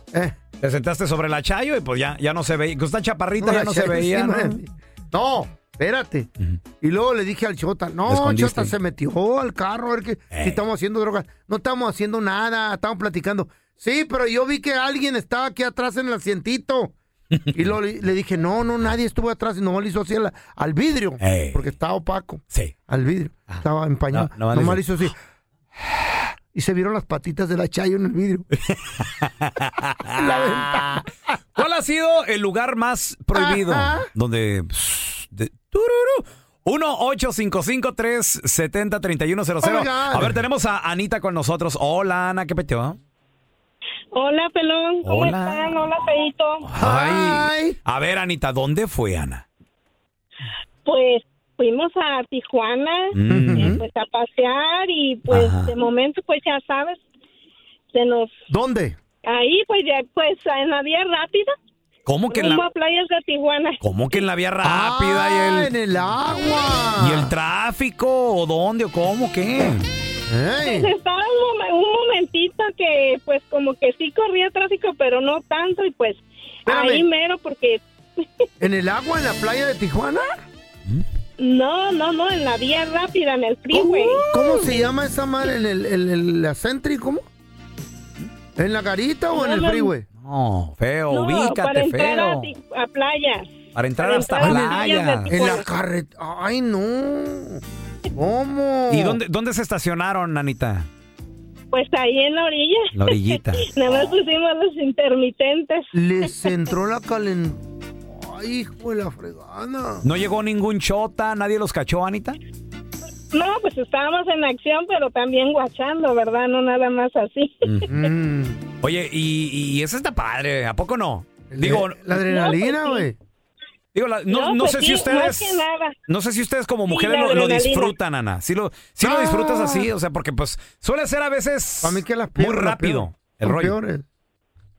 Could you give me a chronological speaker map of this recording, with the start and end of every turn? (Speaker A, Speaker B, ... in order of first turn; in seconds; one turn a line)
Speaker A: 0.6-4.6
Speaker B: 3.4-6.3
Speaker B: 6.8-16.9
Speaker A: 8.1-8.7
Speaker A: 10.3-10.6
Speaker A: 17.3-17.6
Speaker B: 17.5-25.1
Speaker A: 21.2-21.6
Speaker A: 23.5-24.8
Speaker B: 26.5-28.5
Speaker A: 28.6-31.0
Speaker B: 30.1-31.1
Speaker A: 31.6-43.0
Speaker B: 33.3-34.1
Speaker B: 39.6-40.4
Speaker C: 44.1-46.7
Speaker A: 45.0-45.7
Speaker A: 46.6-49.4
Speaker B: 46.8-47.8
Speaker C: 50.9-57.0
Speaker A: 53.1-53.8
Speaker B: 53.3-53.8
Speaker A: 55.3-55.7
Speaker C: 57.9-58.3
Speaker B: 58.5-59.0
Speaker C: 59.2-61.5
Speaker A: 62.0-62.6
Speaker C: 62.3-63.8
Speaker A: 63.8-65.7
Speaker B: 64.6-67.3
Speaker A: 67.0-69.9
Speaker B: 70.3-70.9
Speaker C: 70.6-78.4
Speaker B: 76.7-77.0
Speaker B: 78.6-80.4
Speaker C: 81.4-84.8
Speaker B: 83.7-87.2
Speaker B: 88.5-90.0
Speaker C: 89.3-89.9
Speaker A: 90.1-92.5
Speaker C: 91.1-95.6
Speaker A: 93.7-95.5
Speaker B: 94.4-94.8
Speaker B: 95.3-97.6
Speaker B: 98.1-99.2
Speaker A: 98.9-100.9
Speaker C: 101.7-105.9
Speaker A: 102.9-104.0
Speaker B: 105.9-110.0
Speaker A: 110.0-112.4
Speaker C: 113.3-118.1
Speaker A: 117.6-117.9
Speaker B: 117.8-118.6
Speaker A: 118.8-122.0
Speaker B: 121.5-123.2
Speaker C: 122.2-123.1
Speaker A: 123.9-133.8
Speaker C: 124.3-125.9
Speaker C: 126.9-127.9
Speaker B: 129.0-129.9
Speaker B: 131.8-134.0